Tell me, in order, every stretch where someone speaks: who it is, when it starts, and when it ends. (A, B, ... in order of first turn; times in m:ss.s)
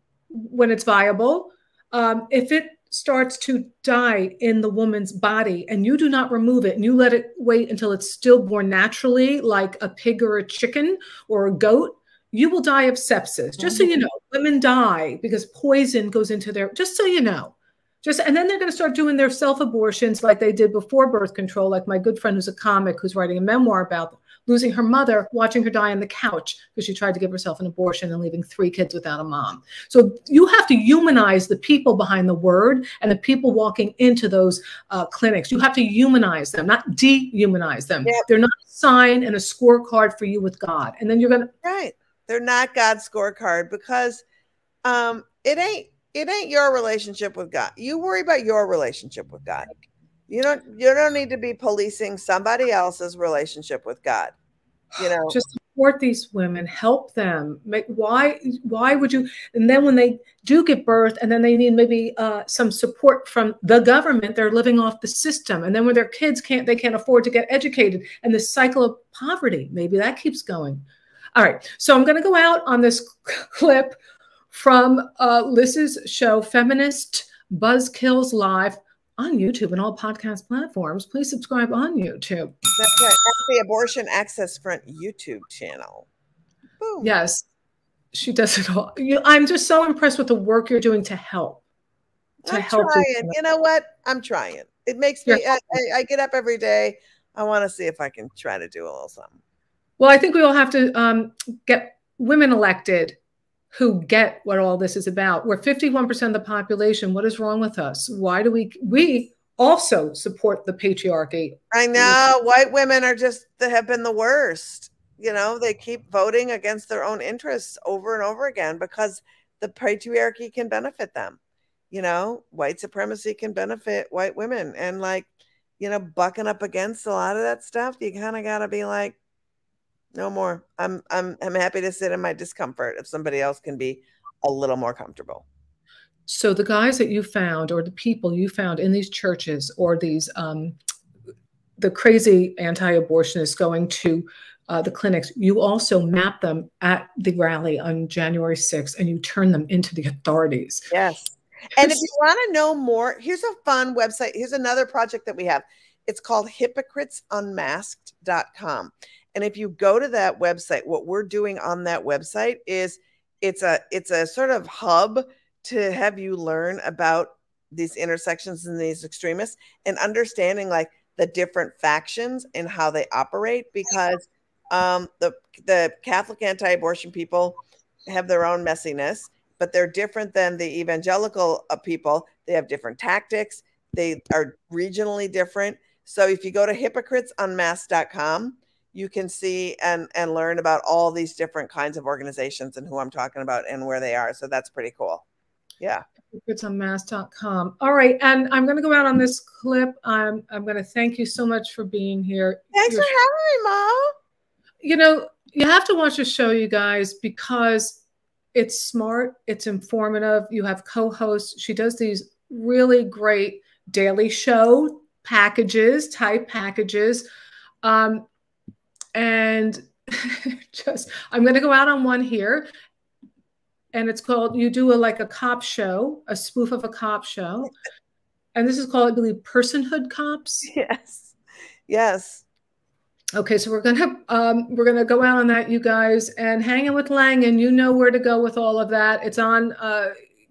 0:00.3-0:41.5 A
0:13.6-0:13.9 B
0:41.6-0:44.2 B
0:44.8-0:54.3 B
0:54.9-1:10.8 A
0:55.0-0:55.4 B
1:11.3-1:14.0 A
1:14.5-1:22.6 A
1:22.8-1:26.0 B
1:26.8-1:27.1 B
1:27.0-1:27.4 A
1:28.1-1:31.6 A
1:32.4-1:39.4 B
1:32.5-1:33.4 A
1:40.0-1:43.2 A
1:43.7-1:52.2 A
1:51.7-2:01.4 B
2:01.9-2:05.3 B
2:05.8-2:09.2 B
2:10.1-2:15.4 B
2:16.3-2:20.8 A
2:21.8-2:30.9 A
2:30.9-3:15.2 B
3:16.3-3:23.2 A
3:22.7-3:24.1 B
3:24.8-3:28.0 A
3:28.5-3:37.2 A
3:37.8-3:38.2 A
3:39.1-3:42.7 A
3:43.9-3:47.7 A
3:48.5-3:50.7 A
3:50.6-3:51.3 B
3:51.9-3:52.4 B
3:53.3-4:00.1 A